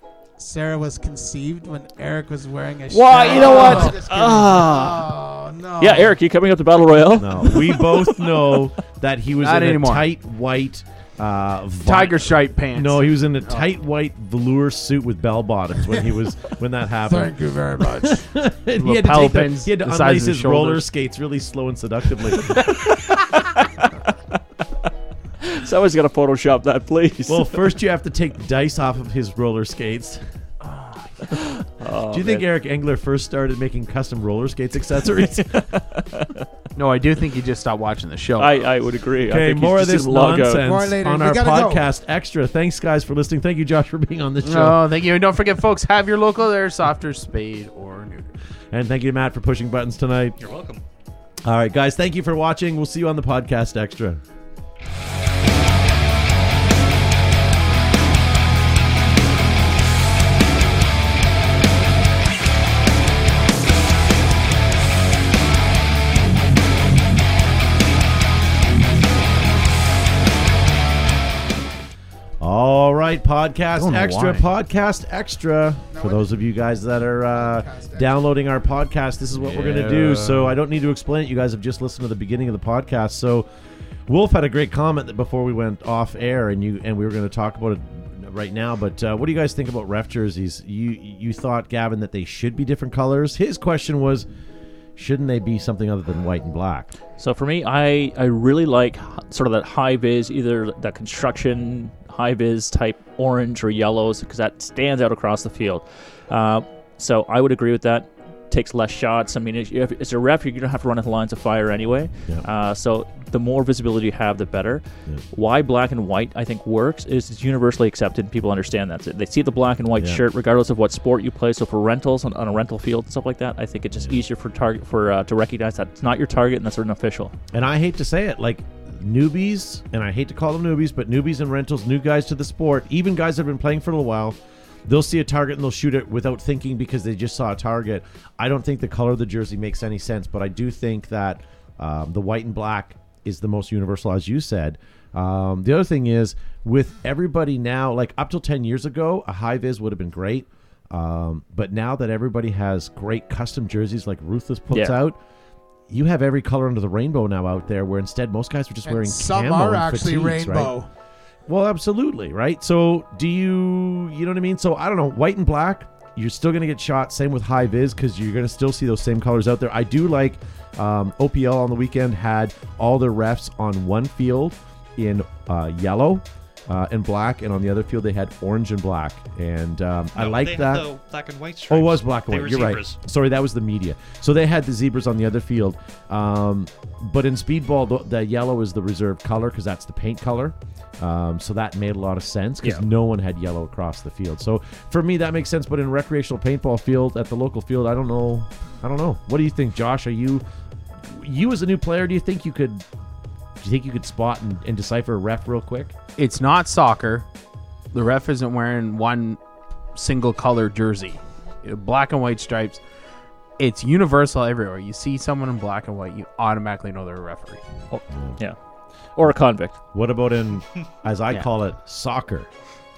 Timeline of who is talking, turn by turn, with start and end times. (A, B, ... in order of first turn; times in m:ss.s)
0:00.4-0:06.2 A
0:02.9-0:05.1 B
0:03.3-0:03.9 C
0:03.4-0:03.9 D
0:05.8-0:08.4 B
0:07.1-0:22.6 C
0:09.4-0:10.1 D
0:11.8-0:13.7 D
0:17.1-0:18.2 A
0:18.8-0:20.8 D
0:22.5-0:24.1 B
0:25.4-0:27.7 B
0:27.3-0:30.2 C
0:31.3-0:32.4 B
0:32.1-0:35.7 C
0:35.2-0:36.5 B
0:36.8-0:38.7 D
0:38.4-0:40.6 B
0:39.3-0:44.8 C
0:40.6-0:41.9 A
0:44.4-0:48.3 D
0:48.7-0:50.4 C
0:50.4-0:50.8 E
0:51.4-0:54.2 C
1:12.4-1:23.5 C
1:13.8-1:14.4 D
1:15.9-1:16.3 A
1:17.3-1:18.1 A
1:19.4-1:20.6 D
1:24.1-1:34.3 C
1:35.0-1:36.9 C
1:37.2-2:07.3 B
2:00.0-2:00.2 C
2:07.5-2:35.2 C
2:34.7-2:35.0 B
2:35.9-2:40.7 C
2:38.8-2:40.9 A
2:41.5-3:00.9 C
3:00.2-3:03.0 E
3:01.7-3:20.4 C
3:21.1-3:22.8 C
3:23.6-3:25.9 C
3:26.2-3:27.3 D
3:27.9-3:29.4 D
3:30.0-3:32.8 D
3:33.6-3:37.6 D
3:37.9-3:38.6 B
3:38.1-3:38.4 C
3:39.2-3:39.8 B
3:39.9-3:42.5 C